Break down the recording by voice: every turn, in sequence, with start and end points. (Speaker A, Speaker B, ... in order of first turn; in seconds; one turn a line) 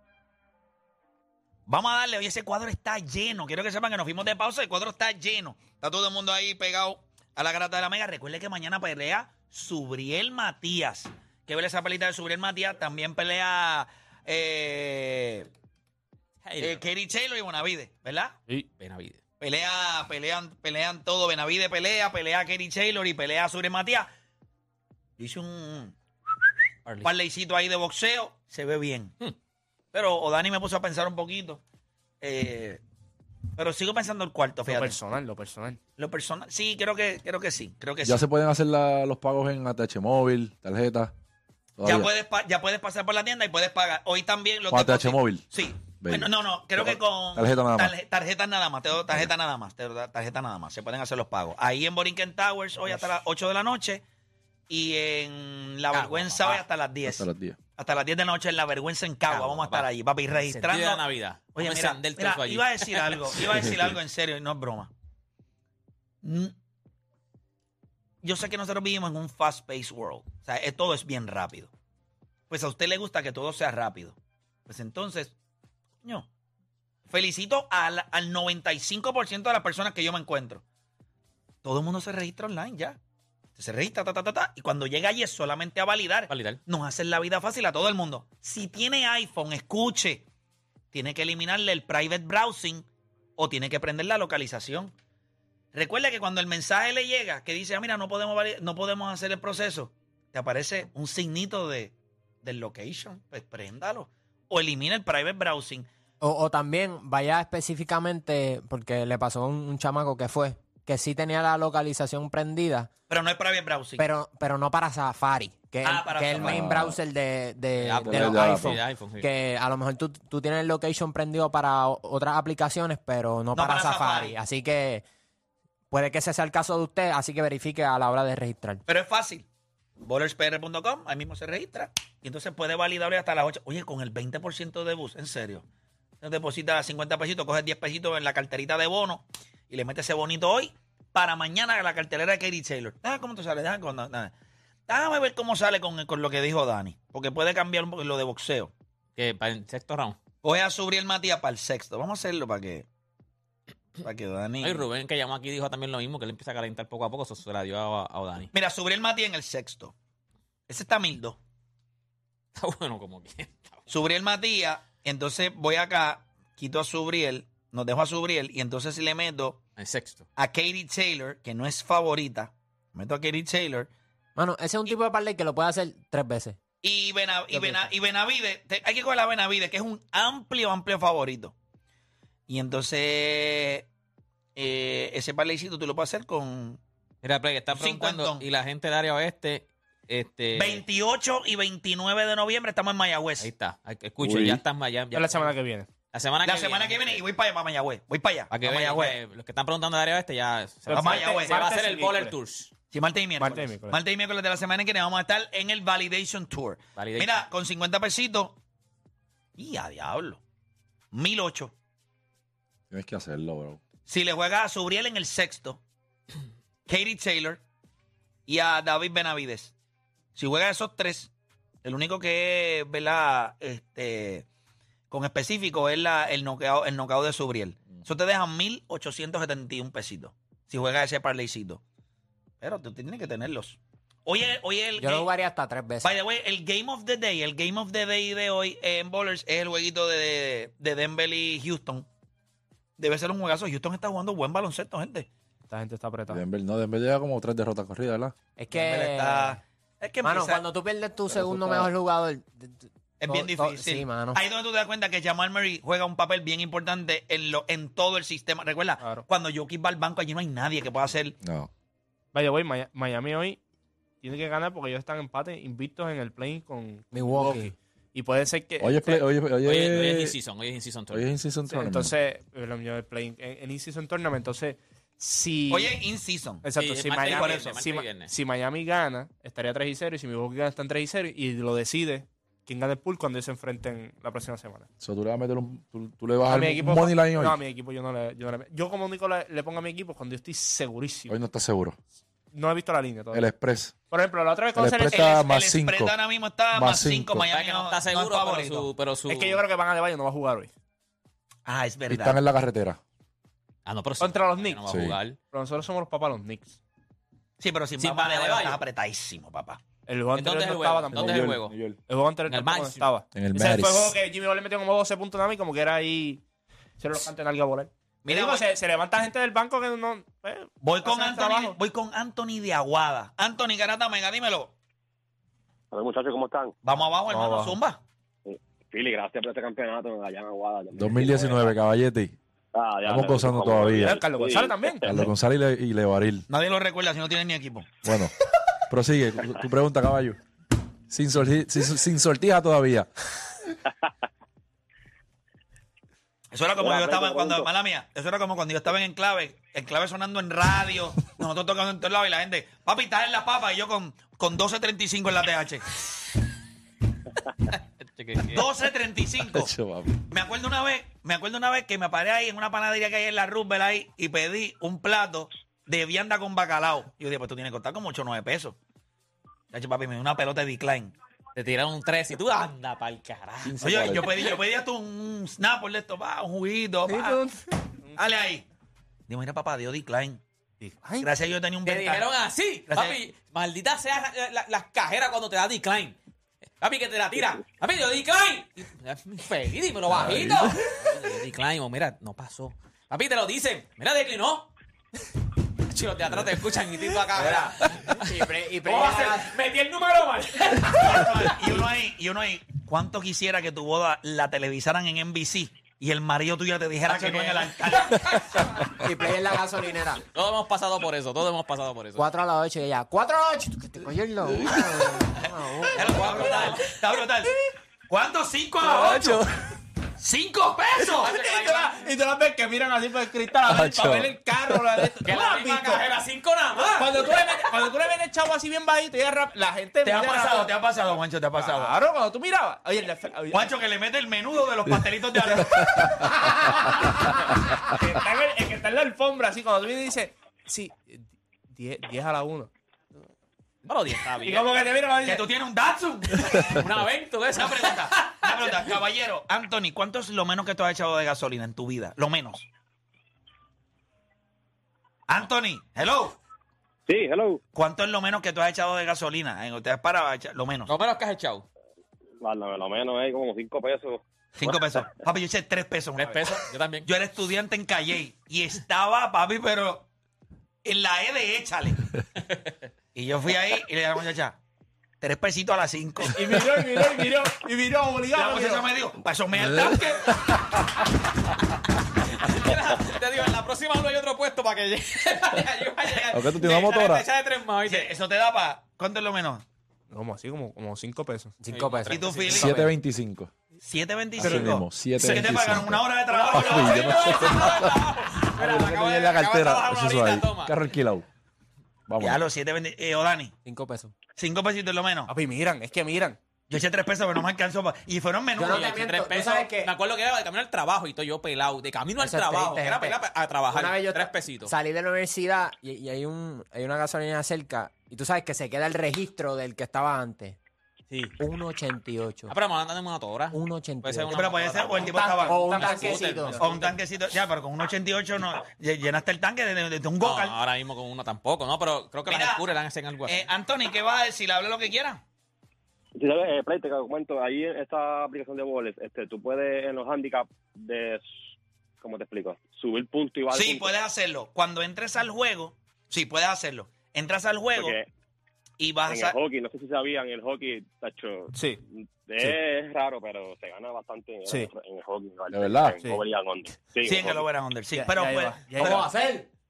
Speaker A: 1.7-15.5
Speaker B: 16.4-16.8
Speaker A: 16.6-18.4
Speaker B: 18.8-19.2
Speaker A: 19.4-24.1
Speaker A: 25.2-26.0
Speaker A: 27.0-29.1
Speaker A: 29.9-31.6
Speaker A: 32.2-32.8
Speaker A: 33.6-35.0
Speaker C: 34.7-35.8
Speaker A: 36.0-38.2
Speaker D: 38.0-41.1
Speaker D: 41.8-42.1
Speaker A: 41.8-54.0
Speaker D: 44.7-45.5
Speaker D: 46.0-47.9
Speaker A: 54.7-57.3
Speaker B: 55.9-56.6
Speaker D: 57.0-57.6
Speaker A: 57.8-61.0
Speaker B: 59.3-59.9
Speaker B: 60.5-63.7
Speaker A: 61.5-64.9
Speaker A: 66.2-66.5
Speaker A: 68.2-71.7
Speaker A: 72.5-75.3
Speaker A: 77.1-80.6
Speaker A: 81.6-83.0
Speaker A: 83.6-90.3
Speaker B: 86.3-86.6
Speaker A: 90.9-94.9
Speaker A: 95.7-105.9
Speaker E: 106.2-112.9
Speaker A: 113.1-114.0
Speaker E: 114.0-125.0
Speaker A: 115.8-116.6
Speaker D: 116.3-117.0
Speaker B: 117.8-119.3
Speaker D: 118.0-118.8
Speaker A: 123.5-124.4
Speaker E: 125.9-128.8
Speaker A: 128.9-129.5
Speaker A: 130.0-135.7
Speaker A: 136.2-144.3
Speaker A: 144.9-148.7
Speaker B: 149.2-150.2
Speaker A: 150.4-152.9
Speaker A: 154.0-154.8
Speaker B: 154.6-158.5
Speaker A: 158.5-159.9
Speaker A: 160.7-161.4
Speaker B: 162.6-163.8
Speaker A: 163.9-169.6
Speaker B: 169.8-170.3
Speaker A: 170.4-173.9
Speaker E: 174.4-176.6
Speaker A: 176.8-181.5
Speaker E: 177.5-177.9
Speaker A: 182.5-183.9
Speaker A: 184.6-186.8
Speaker B: 187.2-190.8
Speaker A: 187.7-188.4
Speaker A: 190.6-193.5
Speaker B: 193.4-195.5
Speaker D: 194.2-194.6
Speaker C: 195.1-195.9
Speaker B: 196.1-197.2
Speaker A: 196.4-199.2
Speaker B: 198.5-202.7
Speaker C: 200.9-202.3
Speaker A: 200.9-201.6
Speaker A: 202.9-208.6
Speaker C: 203.4-204.0
Speaker B: 207.0-207.4
Speaker A: 209.6-210.4
Speaker A: 211.1-211.7
Speaker D: 212.9-213.8
Speaker A: 214.1-215.8
Speaker A: 216.9-217.6
Speaker A: 218.5-219.7
Speaker A: 220.3-221.3
Speaker A: 221.8-224.5
Speaker A: 225.1-231.8
Speaker A: 232.6-235.3
Speaker E: 235.0-236.1
Speaker A: 236.0-242.1
Speaker A: 243.0-245.3
Speaker C: 245.7-246.4
Speaker D: 246.3-248.3
Speaker E: 248.6-249.6
Speaker A: 248.7-250.6
Speaker E: 250.2-254.4
Speaker D: 251.3-251.9
Speaker A: 253.2-261.4
Speaker C: 259.0-259.3
Speaker D: 261.4-261.7
Speaker C: 262.3-263.6
Speaker C: 264.2-269.1
Speaker E: 267.1-267.7
Speaker D: 268.8-270.4
Speaker B: 269.1-271.3
Speaker D: 271.1-272.1
Speaker C: 271.7-276.0
Speaker A: 275.7-276.7
Speaker C: 276.6-284.9
Speaker B: 276.8-278.3
Speaker A: 277.2-277.8
Speaker D: 285.0-287.6
Speaker C: 286.5-291.3
Speaker D: 291.3-292.0
Speaker C: 292.5-293.5
Speaker D: 293.3-293.9
Speaker C: 294.1-295.2
Speaker D: 294.8-296.1
Speaker A: 295.1-298.9
Speaker D: 296.7-297.5
Speaker B: 297.5-299.6
Speaker C: 299.3-300.7
Speaker A: 301.7-302.4
Speaker D: 302.1-303.0
Speaker B: 303.9-305.4
Speaker C: 304.2-304.8
Speaker D: 304.9-305.2
Speaker C: 305.5-306.8
Speaker A: 307.6-309.8
Speaker B: 308.0-308.8
Speaker C: 310.1-316.4
Speaker B: 310.4-311.8
Speaker D: 311.1-312.0
Speaker B: 312.5-313.1
Speaker D: 313.4-314.2
Speaker C: 317.0-321.8
Speaker A: 318.3-318.7
Speaker A: 320.8-324.8
Speaker F: 325.9-326.7
Speaker A: 326.8-328.0
Speaker C: 327.3-327.8
Speaker F: 328.5-331.7
Speaker D: 331.0-332.4
Speaker F: 332.7-335.3
Speaker D: 333.1-334.2
Speaker C: 333.9-335.1
Speaker D: 335.0-336.5
Speaker A: 336.5-338.0
Speaker D: 338.0-338.4
Speaker D: 338.9-340.4
Speaker D: 341.1-343.1
Speaker A: 346.5-356.0
Speaker F: 346.8-347.7
Speaker B: 358.0-358.7
Speaker A: 358.5-368.8
Speaker D: 359.5-360.2
Speaker A: 369.7-371.1
Speaker B: 371.6-374.4
Speaker D: 373.6-374.5
Speaker A: 373.8-377.4
Speaker C: 377.1-378.2
Speaker A: 378.2-378.6
Speaker A: 379.3-380.4
Speaker C: 380.8-381.3
Speaker A: 381.2-382.3
Speaker B: 381.9-386.2
Speaker A: 382.9-383.2
Speaker B: 386.8-394.7
Speaker D: 390.1-390.8
Speaker B: 395.9-401.6
Speaker E: 397.4-399.5
Speaker A: 400.9-408.4
Speaker B: 407.2-407.6
Speaker E: 409.0-410.2
Speaker B: 410.3-412.2
Speaker E: 412.2-416.8
Speaker D: 414.5-415.2
Speaker A: 415.4-417.6
Speaker B: 415.9-416.9
Speaker A: 418.1-419.5
Speaker D: 418.8-419.6
Speaker A: 420.2-421.4
Speaker B: 421.2-422.1
Speaker C: 421.5-426.1
Speaker D: 423.7-425.1
Speaker B: 425.2-427.9
Speaker C: 427.0-430.7
Speaker A: 430.0-432.0
Speaker C: 431.6-433.7
Speaker A: 433.5-436.0
Speaker D: 435.5-437.2
Speaker C: 436.0-442.7
Speaker B: 443.8-444.8
Speaker C: 444.4-445.5
Speaker A: 445.2-446.8
Speaker B: 446.6-449.0
Speaker A: 447.6-452.7
Speaker A: 455.3-456.4
Speaker F: 457.1-457.6
Speaker A: 457.8-460.9
Speaker B: 460.9-461.7
Speaker F: 462.4-465.1
Speaker A: 464.6-470.1
Speaker B: 466.2-467.1
Speaker A: 470.8-472.1
Speaker B: 472.4-472.7
Speaker A: 473.1-474.6
Speaker A: 475.2-476.8
Speaker C: 476.3-478.9
Speaker A: 478.3-480.7
Speaker D: 479.7-480.0
Speaker B: 482.3-488.1
Speaker A: 486.1-486.7
Speaker D: 486.3-487.2
Speaker A: 487.9-489.6
Speaker C: 490.1-491.6
Speaker E: 491.6-492.9
Speaker B: 491.7-492.7
Speaker A: 492.1-492.8
Speaker D: 492.5-493.5
Speaker A: 493.8-497.9
Speaker D: 494.4-501.3
Speaker B: 495.2-495.5
Speaker B: 496.3-500.9
Speaker D: 502.1-502.4
Speaker A: 502.2-503.6
Speaker E: 503.6-504.1
Speaker A: 504.4-505.3
Speaker C: 505.3-506.4
Speaker A: 506.7-508.9
Speaker E: 508.6-509.9
Speaker B: 508.7-514.7
Speaker E: 512.2-513.2
Speaker E: 513.7-520.6
Speaker B: 521.1-521.4
Speaker E: 521.4-522.5
Speaker B: 522.5-526.9
Speaker E: 523.5-524.4
Speaker A: 524.3-526.1
Speaker E: 525.0-526.7
Speaker C: 525.7-526.5
Speaker A: 526.6-530.5
Speaker B: 530.2-533.4
Speaker A: 532.3-532.6
Speaker A: 533.3-535.2
Speaker F: 536.2-541.3
Speaker F: 542.0-543.9
Speaker A: 543.5-548.0
Speaker F: 547.8-548.1
Speaker A: 548.8-549.4
Speaker F: 549.1-551.5
Speaker C: 551.5-551.8
Speaker F: 552.3-557.5
Speaker D: 555.5-556.0
Speaker A: 557.0-559.1
Speaker C: 557.9-559.1
Speaker E: 558.8-559.5